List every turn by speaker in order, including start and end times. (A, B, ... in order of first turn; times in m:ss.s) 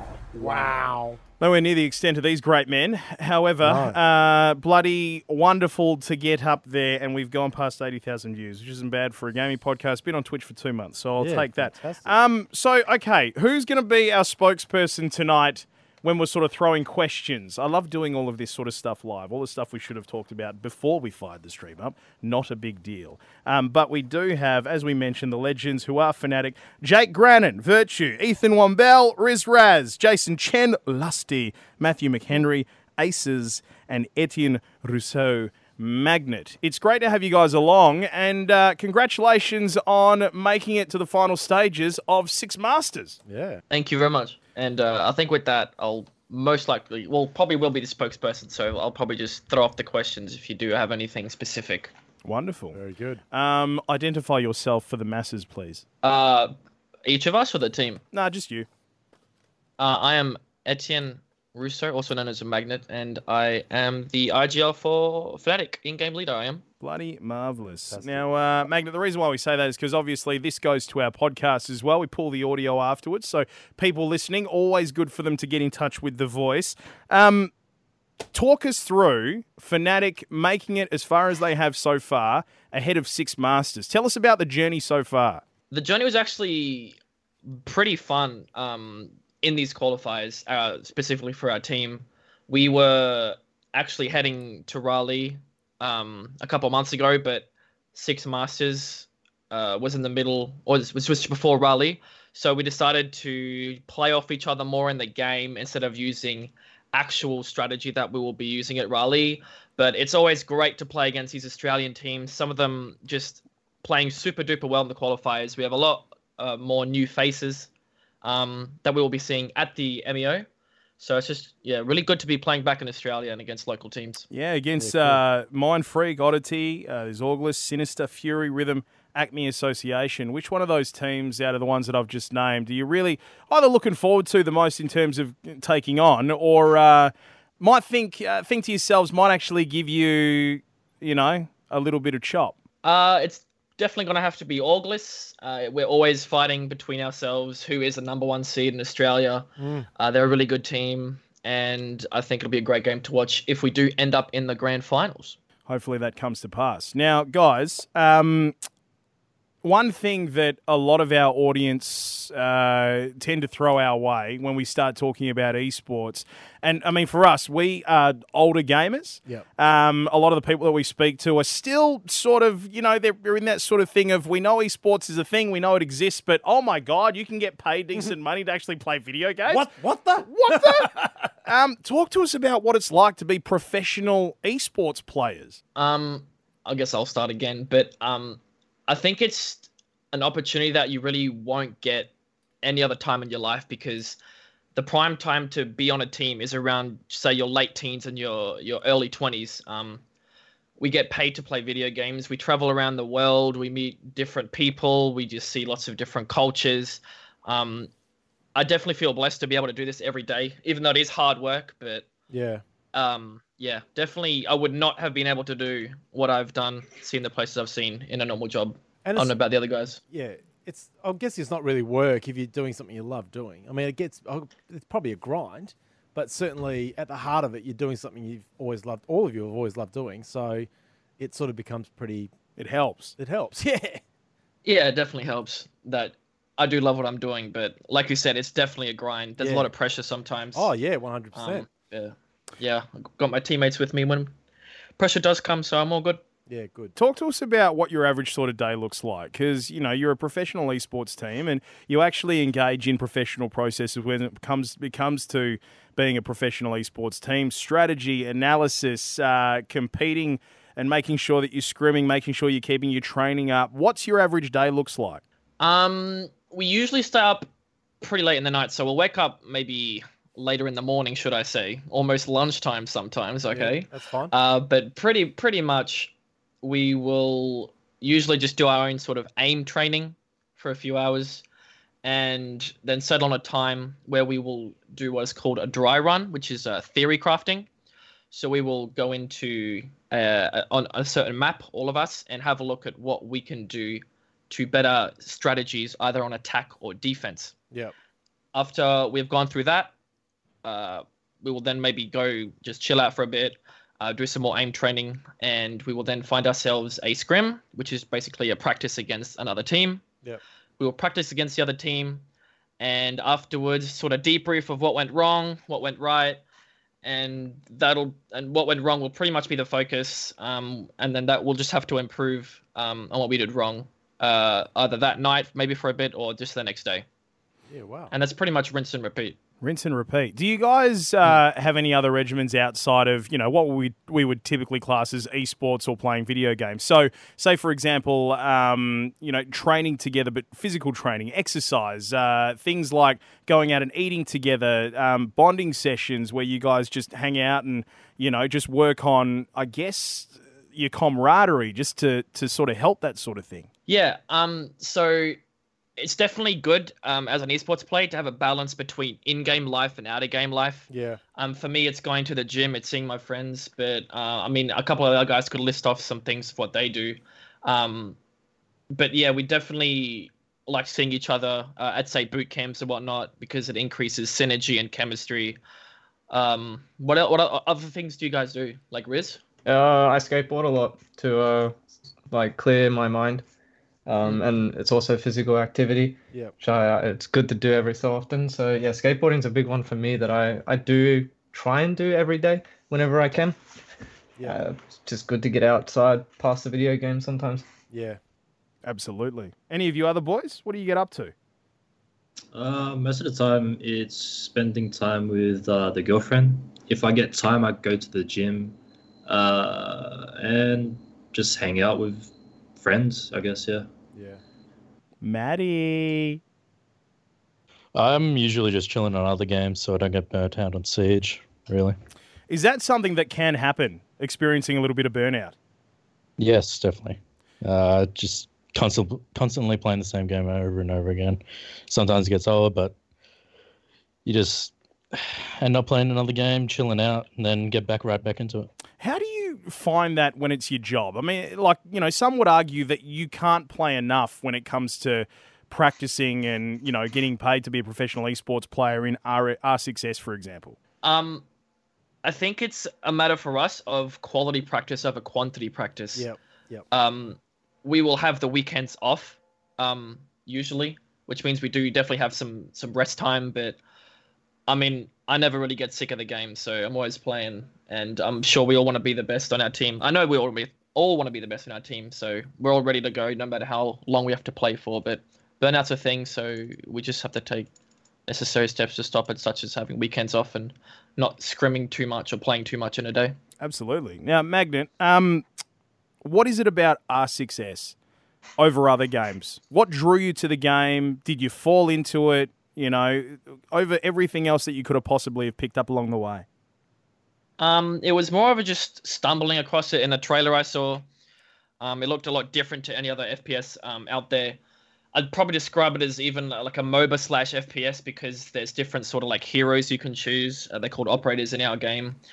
0:00.3-0:01.2 A
0:01.4-0:43.2 B
0:03.6-0:04.0 A
0:11.2-0:12.1 A
0:43.2-0:43.6 A
0:43.7-0:51.9 C
0:52.2-0:52.8 B
0:52.7-0:53.2 A
0:53.3-0:55.8 B
0:56.0-0:56.5 C
0:57.0-0:58.0 C
0:58.1-0:58.7 B
0:59.8-1:06.6 C
1:06.8-1:17.5 B
1:07.6-1:08.3 A
1:18.3-1:25.4 B
1:25.7-1:57.7 C
1:58.2-2:00.4 C
2:01.0-2:04.3 C
2:04.3-2:22.6 B
2:04.8-2:05.2 A
2:22.8-2:35.4 C
2:29.6-2:29.9 A
2:35.7-2:38.5 B
2:39.6-2:59.7 B
2:59.4-3:01.3 A
3:00.2-3:00.9 B
3:01.4-3:05.6 B
3:05.8-3:12.1 C
3:12.6-3:14.2 C
3:14.8-3:20.0 C
3:20.8-3:27.9 C
3:28.6-3:32.1 C
3:32.3-3:32.6 A
3:32.9-3:40.0 C
3:39.0-3:39.3 A
3:40.1-3:50.7 A
3:51.2-3:52.3 A
3:52.6-3:53.2 B
3:53.2-3:54.0 A
3:54.6-4:00.7 C
3:59.4-3:59.7 A
4:00.6-4:01.7 A
4:01.4-4:04.3 C
4:05.0-4:06.2 C
4:06.5-4:06.9 A
4:07.0-4:25.2 B
4:25.6-4:27.5 C
4:28.0-4:41.4 C
4:33.5-4:34.3 A
4:42.0-4:47.7 C
4:48.3-4:57.5 C
4:58.5-4:59.9 C
5:00.6-5:10.0 C
5:10.8-5:12.2 C
5:12.8-5:16.4 C
5:17.0-5:27.0 C
5:27.7-5:28.1 A
5:28.1-5:29.4 C
5:29.6-5:53.7 B
5:53.9-5:55.4 C
5:56.0-6:08.2 C
6:00.9-6:01.2 A
6:08.9-6:15.6 C
6:16.3-6:19.4 C
6:19.6-6:21.8 D
6:22.3-6:23.4 D
6:24.1-6:33.6 D
6:34.4-6:37.7 D
6:37.9-6:38.2 A
6:38.8-6:41.3 B
6:42.5-6:53.9 E
6:54.2-6:54.4 A
6:55.2-6:56.4 B
6:57.9-7:02.0 F
7:02.5-7:05.6 B
7:06.4-7:12.9 F
7:14.2-7:18.7 F
7:19.0-7:30.8 B
7:31.0-7:31.4 C
7:32.2-7:36.3 C
7:36.2-7:36.8 A
7:36.9-7:43.8 C
7:44.7-7:57.7 C
7:58.3-8:03.3 C
8:03.6-8:05.4 B
8:06.2-8:07.9 B
8:08.6-8:16.4 B
8:17.6-8:21.0 C
8:21.8-8:24.6 C
8:25.1-8:32.2 C